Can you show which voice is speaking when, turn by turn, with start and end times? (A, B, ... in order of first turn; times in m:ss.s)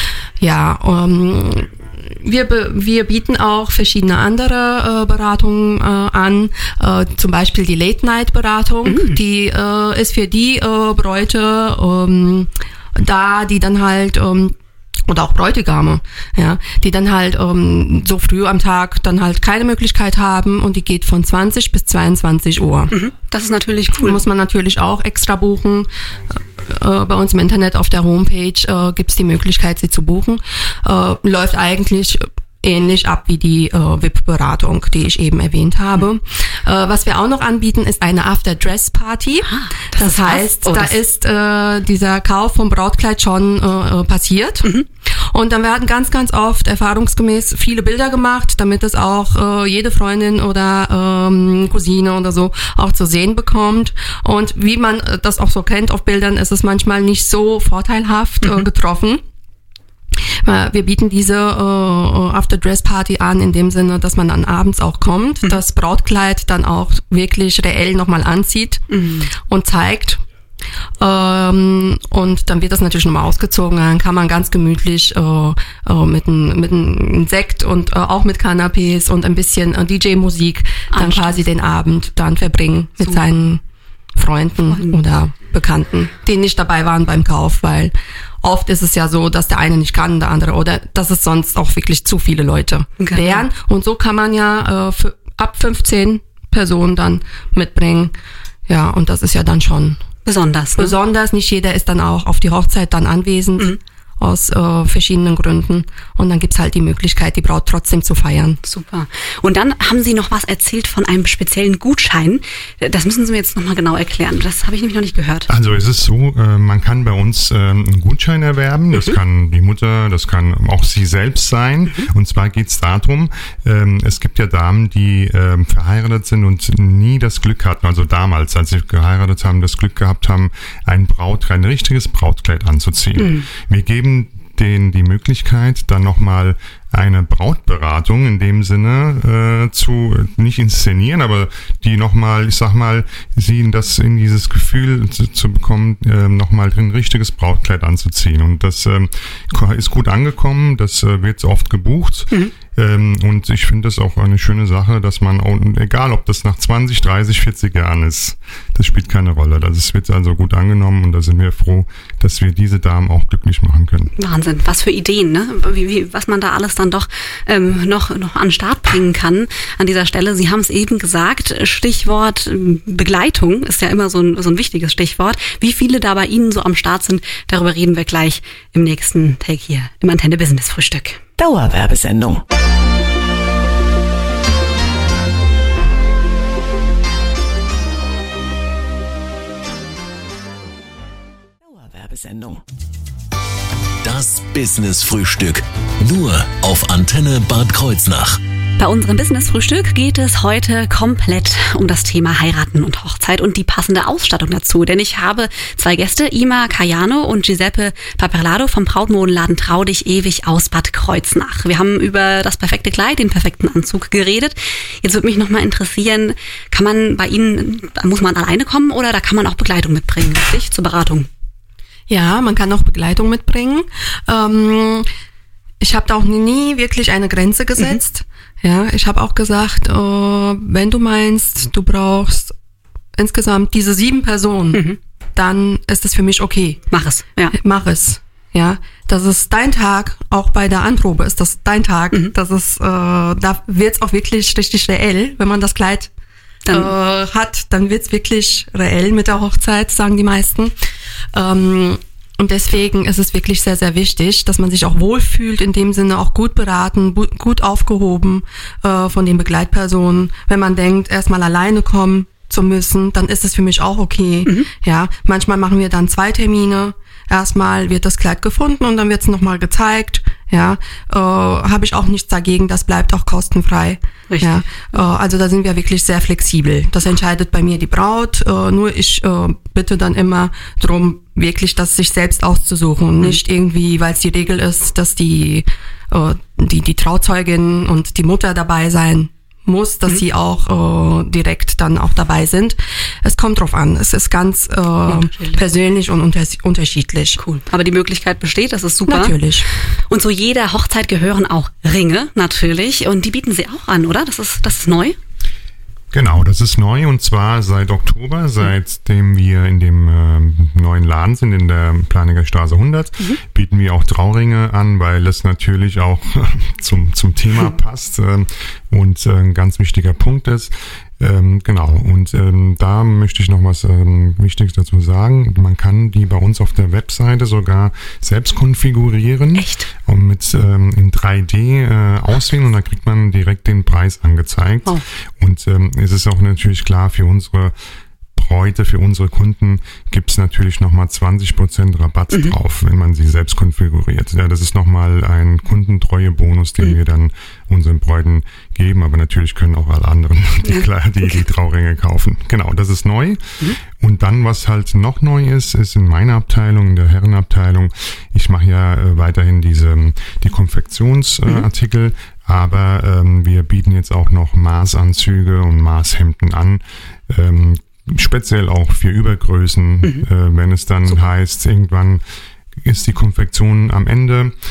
0:00.4-0:14.5 A
0:08.9-0:09.2 B
0:15.1-0:23.0 A
0:22.9-0:24.2 B
0:23.9-0:44.7 A
0:39.5-0:41.0 B
0:45.3-0:59.2 A
1:00.4-1:08.8 A
1:08.9-1:09.3 B
1:09.5-1:10.2 A
1:11.0-1:23.6 A
1:20.9-1:21.4 B
1:24.2-1:38.2 A
1:24.6-1:24.9 B
1:33.0-1:33.5 B
1:38.7-1:40.0 A
1:40.3-1:41.0 B
1:40.8-1:48.6 A
1:48.6-1:55.5 B
1:55.5-2:44.1 C
2:13.2-2:13.5 B
2:44.2-3:01.2 B
3:01.4-3:02.4 D
3:11.6-3:12.6 D
3:14.0-3:18.4 E
3:18.8-3:41.3 B
3:42.1-3:45.1 A
3:45.8-3:52.6 A
3:53.2-3:56.8 A
3:54.7-3:55.0 B
3:56.9-3:57.6 B
3:57.5-4:06.1 A
4:06.7-4:06.9 B
4:06.7-4:10.7 A
4:11.3-4:57.4 A
4:34.3-4:34.9 B
4:55.1-4:55.6 B
4:57.4-4:59.4 B
4:59.1-4:59.7 A
5:00.1-5:05.2 B
5:06.1-5:37.8 C
5:29.6-5:29.9 B
5:38.4-6:12.2 C
6:12.8-6:14.6 C